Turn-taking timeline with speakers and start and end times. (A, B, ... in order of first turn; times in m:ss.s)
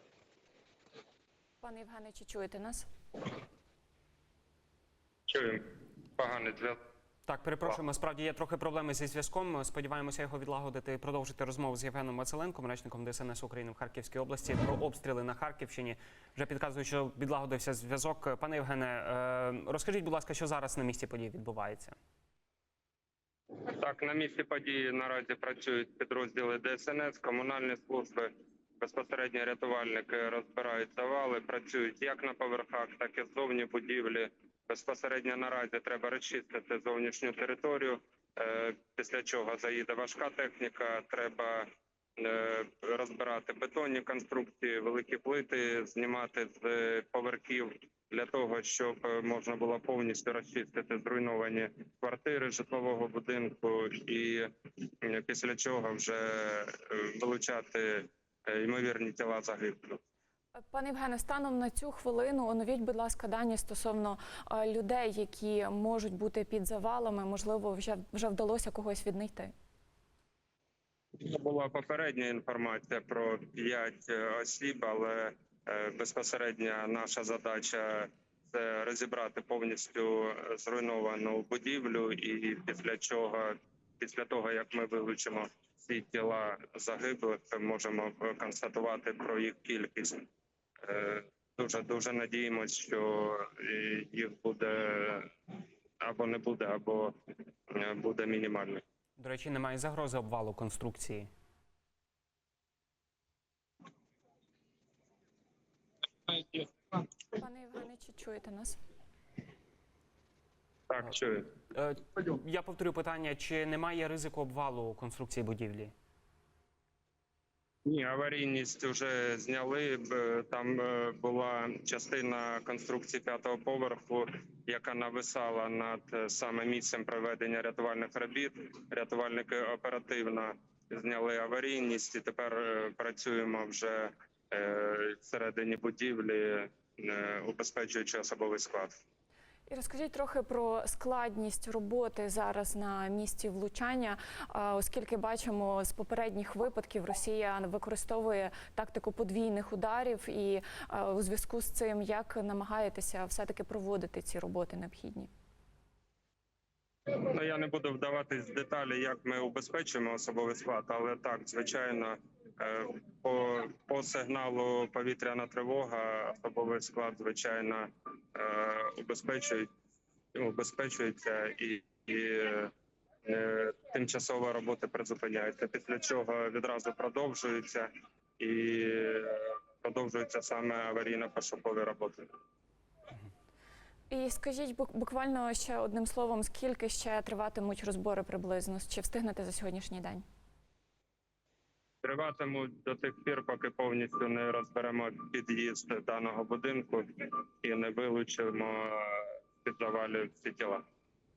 0:01.6-0:02.9 A
0:05.3-0:05.6 B
0:06.2-0:06.8 B
0:07.3-0:22.0 C
0:23.7-0:54.5 B
0:55.0-1:00.0 B
1:00.7-1:09.5 A
1:11.2-1:30.2 B
1:30.8-1:35.3 B
1:36.0-1:37.2 B
1:37.7-1:38.8 B
1:39.2-1:41.3 C
1:46.3-1:46.7 B
1:47.3-1:48.8 A
1:50.9-1:51.6 B
1:51.7-1:55.9 C
1:57.8-2:19.0 B
2:19.7-2:35.3 A
2:37.1-2:49.7 B
2:50.3-2:52.7 B
2:53.2-3:02.3 B
3:04.1-3:10.2 A
3:12.0-3:20.8 B